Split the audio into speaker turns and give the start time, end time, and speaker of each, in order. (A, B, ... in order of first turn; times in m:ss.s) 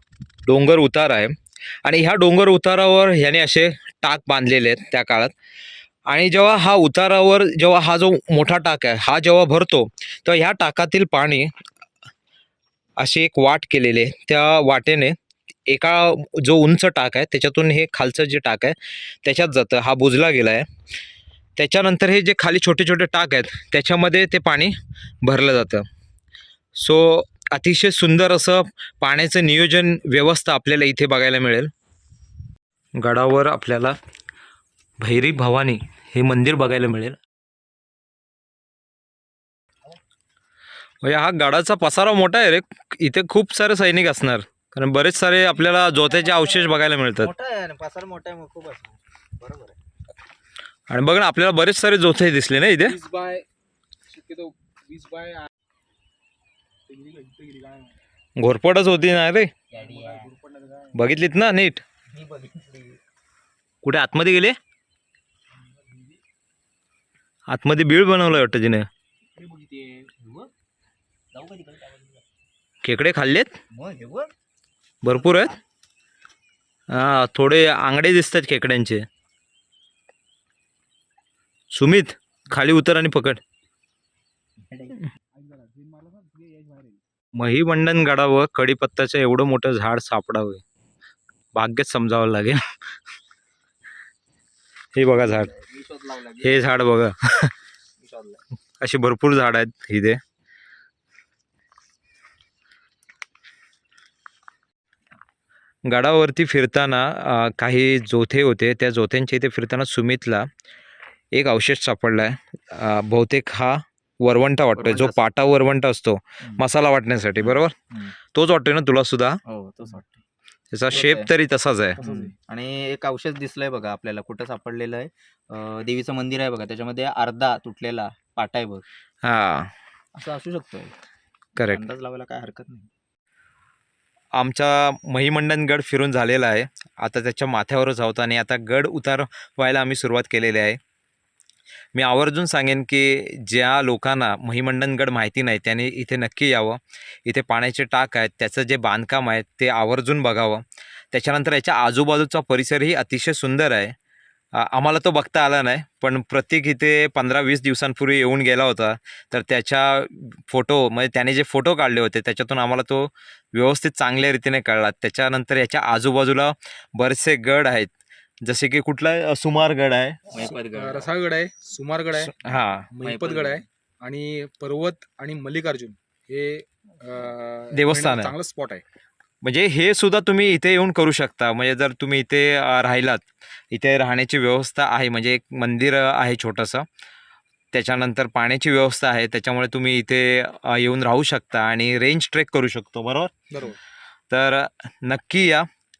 0:00.4-0:05.3 A
0:06.1-0:11.5 A
0:13.0-0:15.2 A
0:15.7-0:20.7 A
0:21.6-0:25.8 A
0:26.8-0:31.7 A
0:33.0-0:34.0 A
0:35.0-0:37.2 A
0:41.0-0:47.3 A
0:45.9-0:49.8 B
0:50.9-0:53.0 A
0:52.8-0:53.4 C
0:54.1-0:55.5 C
0:56.9-0:58.0 C
0:58.4-0:59.5 A
0:59.7-1:00.3 B
0:59.7-1:01.0 C
1:00.9-1:01.8 A
1:02.1-1:03.0 B
1:03.8-1:04.6 A
1:07.5-1:08.9 A
1:09.4-1:10.1 C
1:10.2-1:10.5 B
1:11.3-1:12.2 B
1:12.8-1:13.5 A
1:13.7-1:14.3 B
1:15.0-1:15.6 A
1:15.1-1:15.6 B
1:16.9-1:19.0 A
1:21.7-1:23.4 A
1:24.7-1:25.0 B
1:25.3-1:27.0 C
1:27.3-1:30.6 A
1:31.5-1:32.6 A
1:34.9-1:35.5 A
1:35.2-1:36.8 B
1:36.4-1:37.5 A
1:38.0-1:38.4 B
1:38.8-1:40.2 A
1:45.8-1:50.5 A
1:51.3-1:59.4 A
1:54.8-1:55.3 B
1:57.4-1:58.1 B
1:59.4-2:00.2 B
2:00.7-2:02.0 A
2:00.9-2:01.3 B
2:02.0-2:08.8 B
2:02.0-2:02.3 C
2:09.2-2:09.7 A
2:10.1-2:11.0 B
2:11.6-2:11.8 A
2:11.6-2:12.9 B
2:14.3-2:20.8 A
2:21.9-2:33.9 A
2:34.5-2:50.3 A
2:50.3-2:51.1 B
2:50.4-2:52.4 C
2:52.1-2:52.9 A
2:52.9-2:58.8 C
2:53.0-2:53.6 B
2:57.7-2:58.3 A
2:59.4-3:06.8 A
3:07.7-3:13.8 A
3:14.3-3:15.7 A